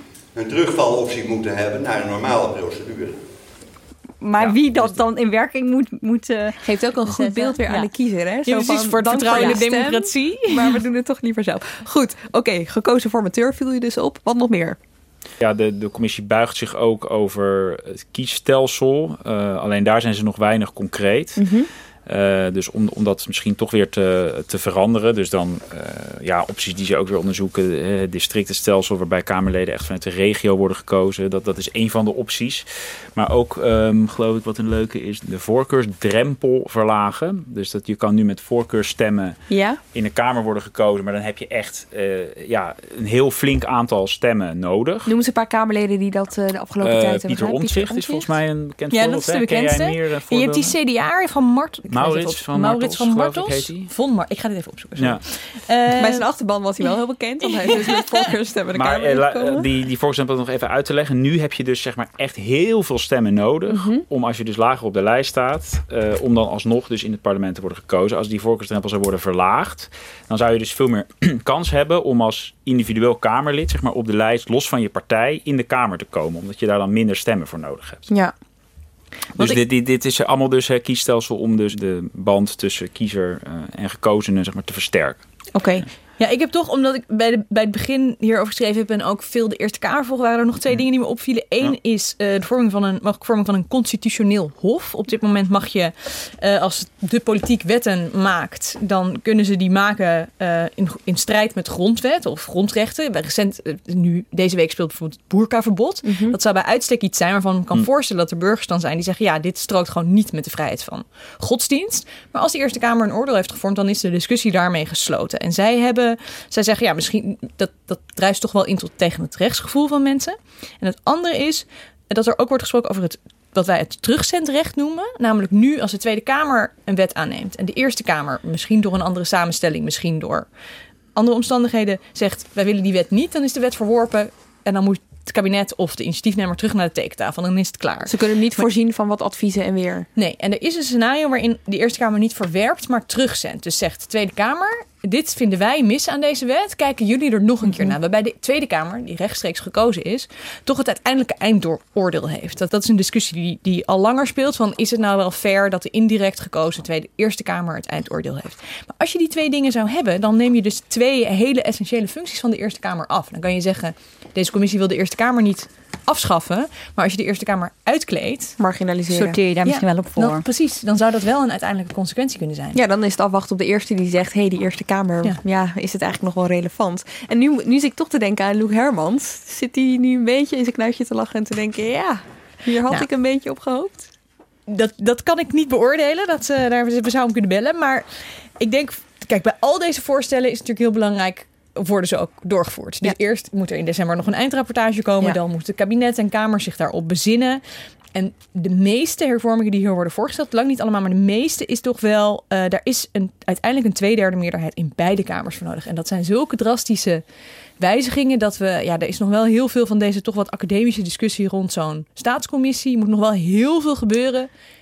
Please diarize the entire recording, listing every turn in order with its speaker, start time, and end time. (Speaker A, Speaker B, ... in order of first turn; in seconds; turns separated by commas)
Speaker A: 0.3-3.2, Speaker B: 4.2-7.9, Speaker C: 4.4-4.8, Speaker D: 6.6-14.8, Speaker E: 8.4-10.8, Speaker C: 15.4-21.4, Speaker D: 21.4-21.7, Speaker C: 22.1-39.4, Speaker D: 39.5-39.8, Speaker C: 39.9-45.1, Speaker D: 45.0-48.3, Speaker C: 46.8-50.8, Speaker E: 48.9-56.2, Speaker C: 51.9-53.9, Speaker D: 56.0-59.6, Speaker E: 57.7-58.0, Speaker C: 58.7-78.1, Speaker D: 63.7-64.0, Speaker D: 78.1-78.3, Speaker C: 79.4-85.2, Speaker D: 85.5-85.8, Speaker E: 86.2-130.5, Speaker D: 106.0-106.4, Speaker E: 131.1-138.1, Speaker D: 138.1-140.1, Speaker E: 140.2-168.6, Speaker D: 147.7-147.9, Speaker D: 168.6-169.4, Speaker B: 169.1-170.4, Speaker E: 169.6-172.8, Speaker D: 172.7-184.1, Speaker E: 184.7-188.1, Speaker E: 188.6-197.6, Speaker E: 198.1-207.2, Speaker E: 207.8-214.5